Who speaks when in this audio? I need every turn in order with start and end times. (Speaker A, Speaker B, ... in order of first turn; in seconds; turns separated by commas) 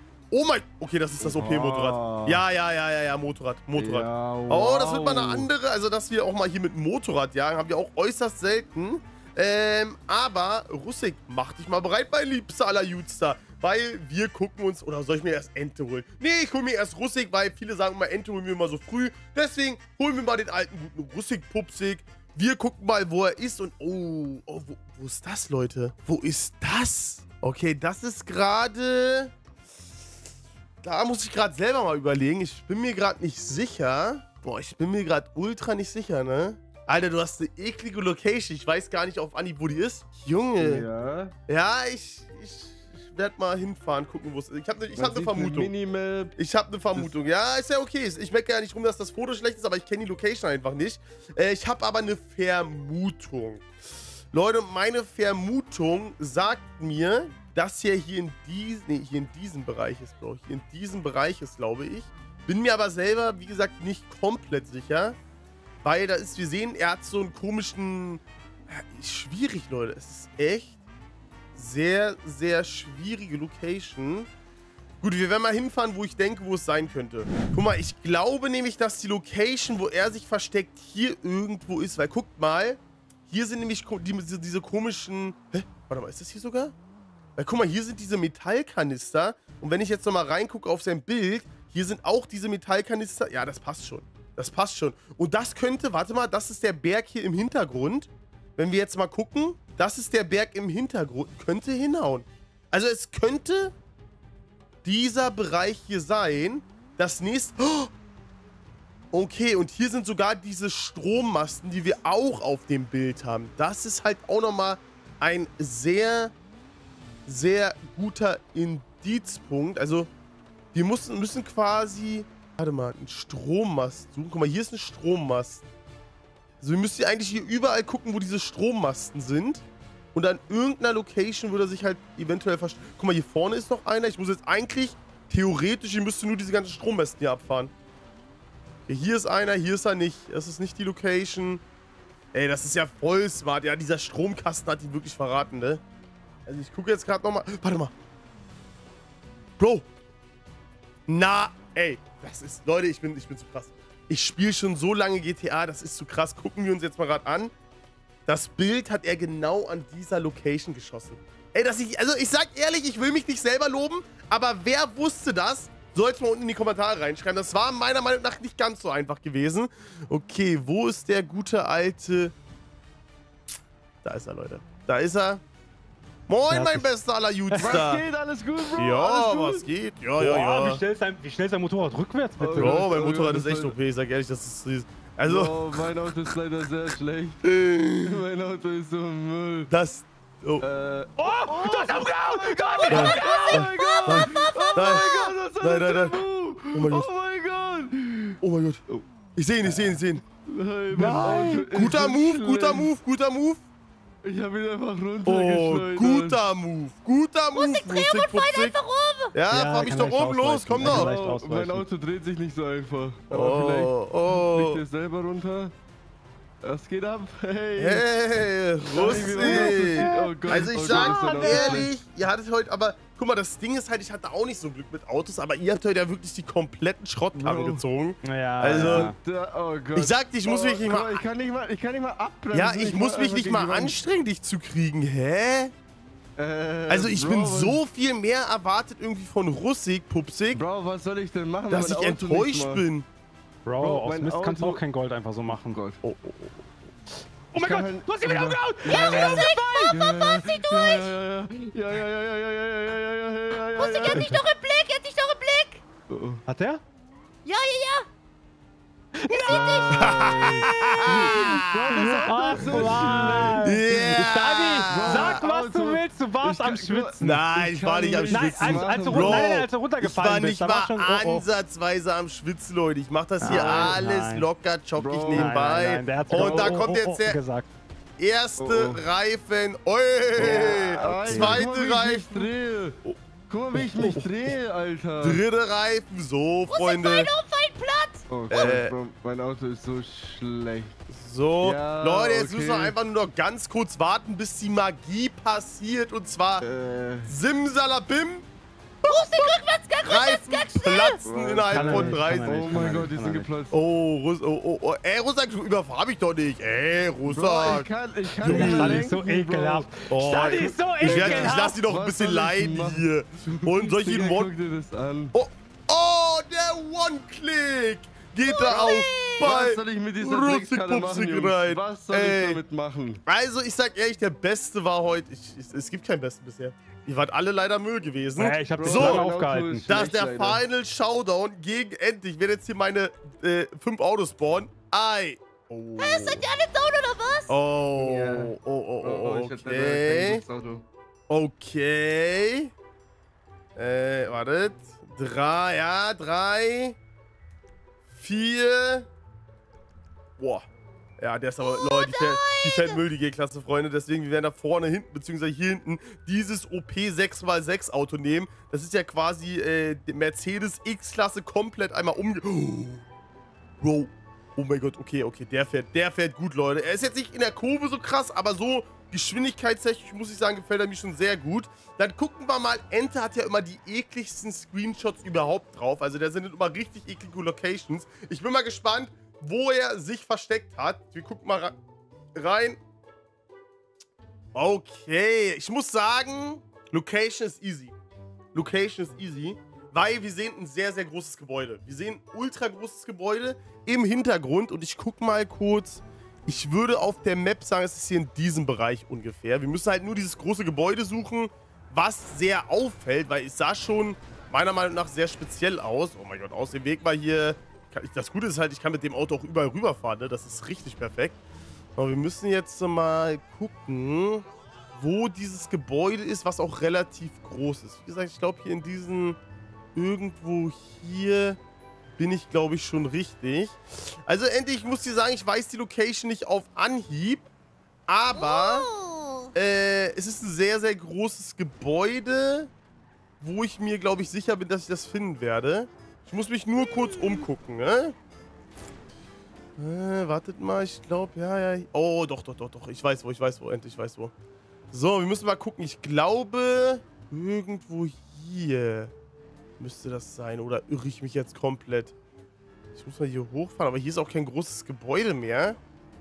Speaker A: 0.3-29.3, Speaker B: 1.2-2.4, Speaker B: 3.7-5.5, Speaker A: 30.8-40.9, Speaker B: 40.6-41.3, Speaker A: 41.5-45.7, Speaker B: 44.9-46.4, Speaker A: 46.4-53.6, Speaker A: 54.3-65.2, Speaker A: 65.8-70.8, Speaker A: 71.5-74.3, Speaker A: 75.0-86.7, Speaker A: 87.4-103.7, Speaker A: 104.8-107.9, Speaker A: 109.1-116.3, Speaker A: 117.3-120.1, Speaker A: 120.7-125.6, Speaker A: 126.6-137.7, Speaker A: 138.9-141.6, Speaker A: 142.3-145.8, Speaker A: 146.5-147.9, Speaker A: 149.6-149.8, Speaker A: 151.1-157.5, Speaker A: 158.3-172.3, Speaker A: 174.0-175.4, Speaker A: 176.3-178.0, Speaker C: 176.5-176.9, Speaker C: 177.5-177.9, Speaker B: 177.6-179.7, Speaker A: 178.8-180.8, Speaker C: 180.2-182.9, Speaker B: 182.4-183.8, Speaker A: 182.5-185.8, Speaker B: 185.2-187.4, Speaker A: 187.4-188.2, Speaker B: 188.1-189.7, Speaker A: 189.7-190.7, Speaker B: 190.6-198.4, Speaker C: 191.2-193.6, Speaker A: 192.9-197.1, Speaker D: 192.9-195.3, Speaker A: 198.4-198.8, Speaker A: 199.3-200.2, Speaker C: 199.6-200.0, Speaker B: 200.4-202.9, Speaker A: 200.9-203.6, Speaker C: 201.0-201.6, Speaker B: 204.2-206.4, Speaker A: 205.2-208.8, Speaker D: 207.5-209.3, Speaker A: 209.3-211.1, Speaker C: 209.5-211.8, Speaker B: 210.8-215.7, Speaker A: 213.3-214.8, Speaker B: 216.6-218.0, Speaker A: 217.8-229.1, Speaker B: 218.9-221.9, Speaker C: 219.0-221.9, Speaker B: 227.3-227.8, Speaker C: 228.2-229.2, Speaker B: 228.7-234.0, Speaker A: 229.9-231.2, Speaker A: 232.5-235.7, Speaker B: 236.4-237.8, Speaker A: 236.9-240.6, Speaker B: 240.5-242.8, Speaker A: 241.7-243.1, Speaker C: 243.6-245.8, Speaker B: 243.8-244.8, Speaker B: 245.6-246.0, Speaker A: 246.0-246.7, Speaker C: 247.5-250.0, Speaker B: 247.5-254.4, Speaker D: 248.9-251.1, Speaker D: 253.7-255.8, Speaker C: 254.1-254.4, Speaker B: 256.1-256.4, Speaker C: 256.4-256.8, Speaker D: 257.4-258.1, Speaker C: 259.2-259.9, Speaker D: 259.3-261.5, Speaker B: 259.5-263.8, Speaker A: 260.0-265.4, Speaker C: 261.1-267.4, Speaker B: 264.9-269.5, Speaker A: 267.2-277.4, Speaker C: 268.2-271.4, Speaker C: 273.4-274.5, Speaker B: 273.4-274.0, Speaker B: 274.9-276.8, Speaker C: 275.3-277.7, Speaker A: 278.2-282.5, Speaker B: 278.6-279.0, Speaker B: 280.4-285.4, Speaker C: 280.4-281.7, Speaker A: 283.7-284.6, Speaker A: 285.2-287.3, Speaker D: 286.7-288.2, Speaker B: 288.3-291.0, Speaker A: 288.5-288.9, Speaker A: 291.1-296.6, Speaker B: 291.6-292.9, Speaker B: 296.6-297.3, Speaker A: 297.2-298.4, Speaker D: 299.0-301.2, Speaker A: 299.0-302.9, Speaker B: 301.2-303.8, Speaker C: 301.6-303.5, Speaker A: 303.7-309.1, Speaker B: 307.2-309.9, Speaker C: 308.4-311.8, Speaker A: 310.1-314.5, Speaker B: 311.0-313.1, Speaker B: 313.6-315.3, Speaker A: 315.3-322.6, Speaker D: 318.4-319.6, Speaker B: 319.4-323.2, Speaker A: 323.2-329.3, Speaker C: 328.4-329.9, Speaker B: 328.8-330.6, Speaker A: 329.9-336.4, Speaker D: 336.0-337.5, Speaker A: 337.5-340.4, Speaker B: 338.0-340.8, Speaker A: 341.3-342.7, Speaker A: 343.8-347.0, Speaker A: 348.1-349.1, Speaker A: 350.4-350.6, Speaker A: 351.2-363.1, Speaker D: 351.6-353.0, Speaker A: 363.8-381.8, Speaker A: 382.3-382.8, Speaker A: 384.5-387.9, Speaker A: 388.5-411.4, Speaker A: 412.0-419.4, Speaker A: 419.9-421.6, Speaker A: 422.2-427.5, Speaker A: 428.1-428.9, Speaker D: 428.3-429.5, Speaker A: 429.5-432.7, Speaker A: 433.4-438.1, Speaker A: 439.8-444.3, Speaker A: 444.9-449.1, Speaker A: 449.8-452.1, Speaker A: 452.9-455.8